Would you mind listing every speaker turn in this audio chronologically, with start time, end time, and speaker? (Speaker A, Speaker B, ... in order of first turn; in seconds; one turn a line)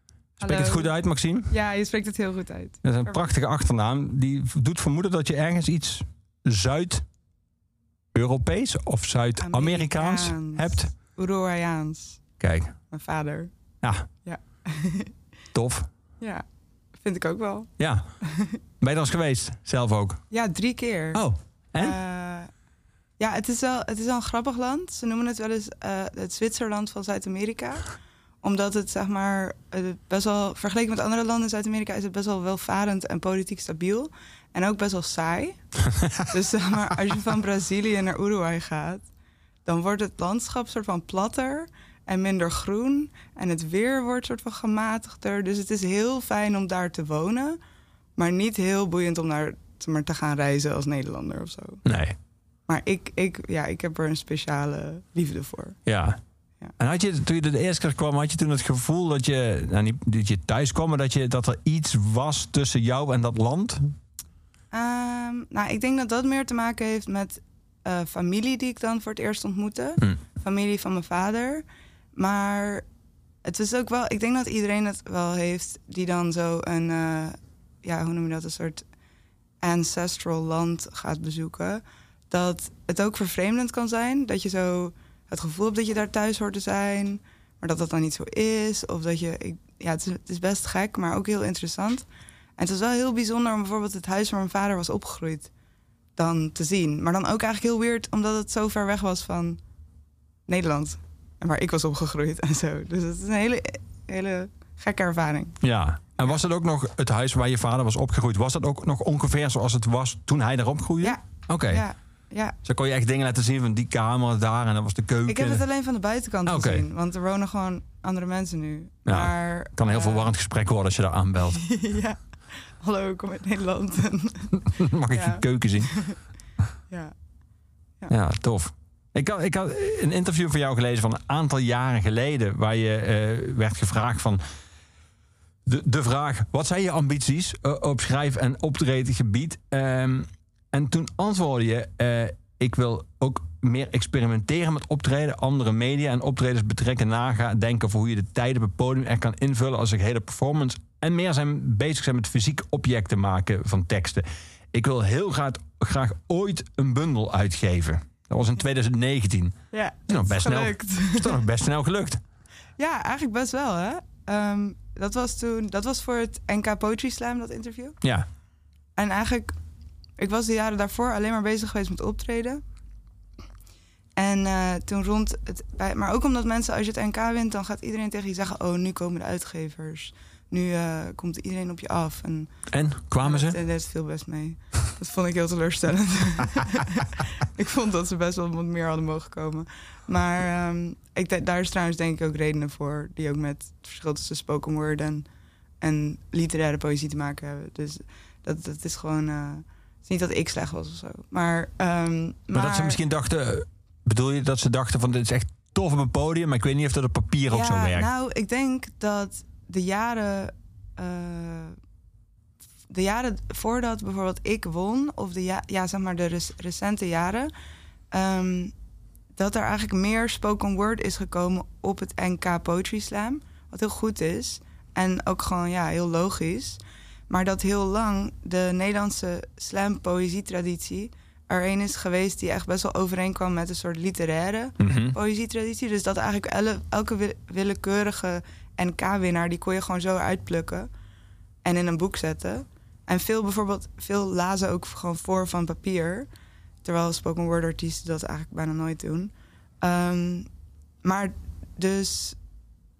Speaker A: 0.4-1.5
Speaker B: 0.4-0.9
Speaker B: 1.4-3.2
Speaker A: 2.8-7.0
Speaker A: 8.1-10.9
Speaker B: 9.4-12.2
Speaker A: 12.4-12.8
Speaker B: 12.9-13.5
Speaker B: 14.2-15.1
Speaker A: 15.5-15.9
Speaker B: 16.9-17.7
Speaker A: 17.8-18.2
Speaker A: 18.8-20.3
Speaker B: 20.3-21.3
Speaker A: 21.1-22.0
Speaker B: 21.8-22.5
Speaker B: 23.2-35.7
Speaker B: 36.3-39.1
Speaker B: 39.6-47.6
Speaker B: 48.2-51.8
Speaker A: 51.8-52.1
Speaker B: 52.7-55.8
Speaker A: 55.9-56.2
Speaker A: 56.8-63.9
Speaker B: 64.7-72.8
Speaker B: 73.4-78.8
Speaker B: 79.6-95.5
Speaker B: 96.2-99.6
Speaker B: 100.5-105.6
Speaker A: 105.6-111.8
Speaker B: 111.0-112.5
Speaker A: 112.6-115.6
Speaker B: 115.3-120.3
Speaker A: 116.5-116.8
Speaker A: 119.0-121.7
Speaker B: 121.6-122.2
Speaker B: 122.8-124.6
Speaker A: 124.7-126.2
Speaker B: 125.1-126.2
Speaker B: 126.9-127.1
Speaker A: 128.1-134.4
Speaker A: 135.7-162.2
Speaker B: 159.7-161.4
Speaker B: 162.8-168.0
Speaker B: 168.9-169.5
Speaker B: 170.2-172.6
Speaker B: 174.2-182.5
Speaker A: 182.7-183.6
Speaker B: 183.2-195.3
Speaker B: 195.8-203.0
Speaker A: 202.5-208.1
Speaker B: 207.5-211.8
Speaker B: 212.9-217.5
Speaker B: 218.1-218.7
Speaker B: 219.3-240.9
Speaker A: 234.8-235.2
Speaker B: 241.6-246.3
Speaker B: 246.8-250.5
Speaker B: 251.0-252.4